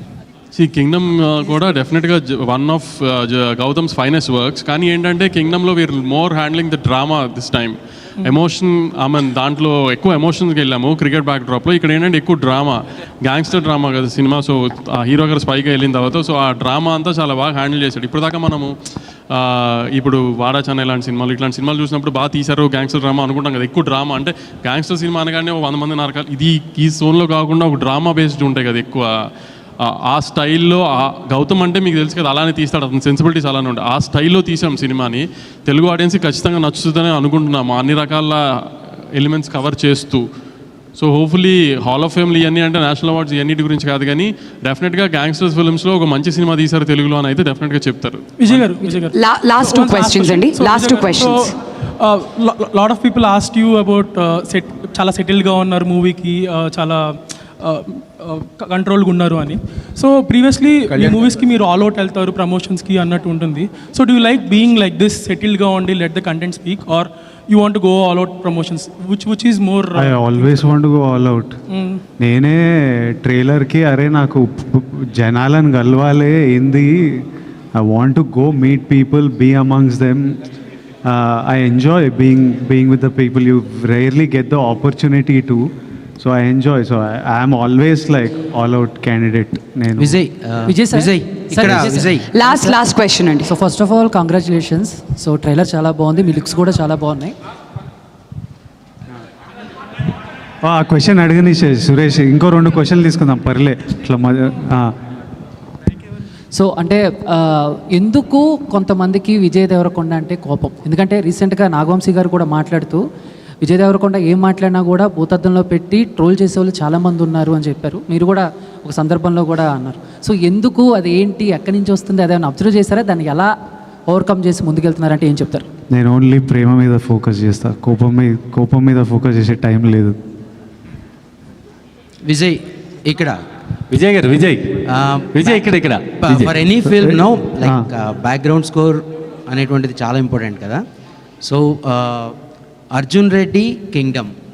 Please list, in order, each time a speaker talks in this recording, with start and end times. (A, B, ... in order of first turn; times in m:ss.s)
0:00.5-0:18.7 A
0:19.3-0:29.1 A
0:29.8-0:40.2 A
0:41.0-0:49.0 A
0:48.4-1:10.7 B
0:49.1-0:51.5 C
1:10.0-1:11.6 D
1:11.7-1:12.0 B
1:12.2-1:20.4 D
1:21.0-1:25.7 D
1:26.2-1:30.2 D
1:30.0-1:32.4 E
1:30.7-1:32.8 F
1:32.3-1:33.5 C
1:33.4-1:37.4 F
1:40.6-1:44.9 D
1:46.5-1:53.0 F
1:53.6-2:03.5 F
2:04.1-2:05.7 F
2:05.9-2:10.2 D
2:12.2-2:13.4 E
2:13.9-2:14.8 G
2:14.9-2:20.8 E
2:15.3-2:16.5 G
2:16.8-2:17.8 D
2:21.4-2:22.4 E
2:22.9-2:24.3 E